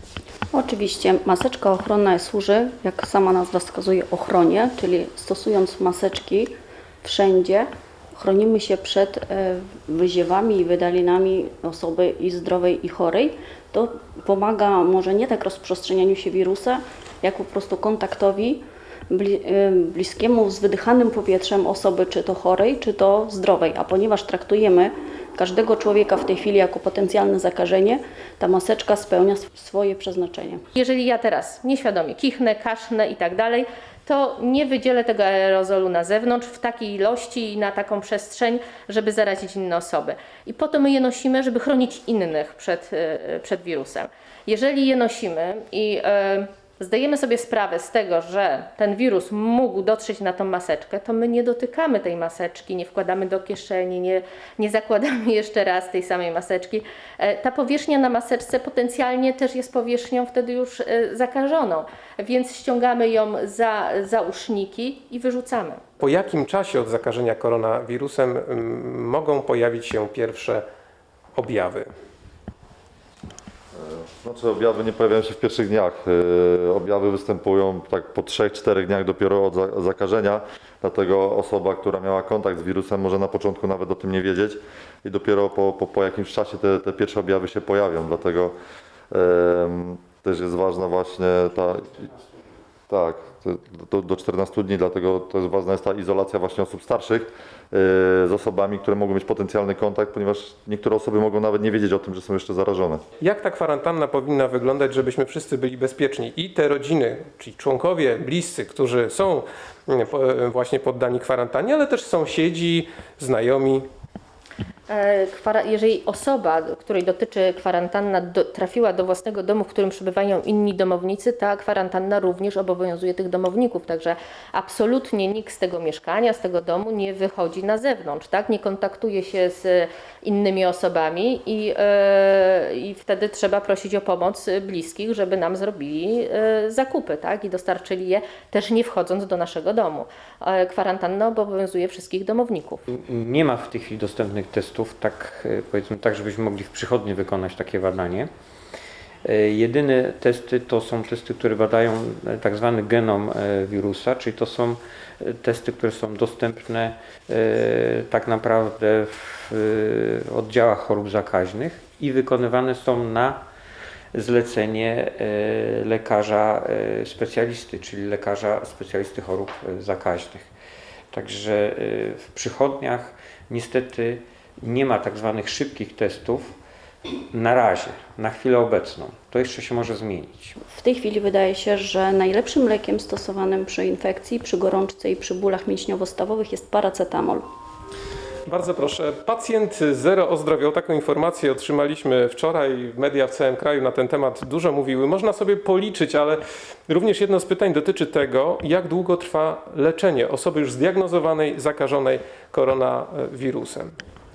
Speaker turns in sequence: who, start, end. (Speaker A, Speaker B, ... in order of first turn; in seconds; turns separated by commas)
Speaker A: 0.5-30.6, Speaker B: 30.8-65.8, Speaker C: 66.0-70.6, Speaker C: 71.3-71.9, Speaker D: 73.8-88.5, Speaker D: 89.1-92.1, Speaker D: 92.9-103.0, Speaker C: 103.2-113.9, Speaker B: 114.9-142.8, Speaker E: 142.9-148.3, Speaker E: 149.2-163.4, Speaker E: 164.1-170.5, Speaker E: 171.1-176.5, Speaker E: 177.3-180.6, Speaker A: 180.7-187.4, Speaker C: 188.5-203.9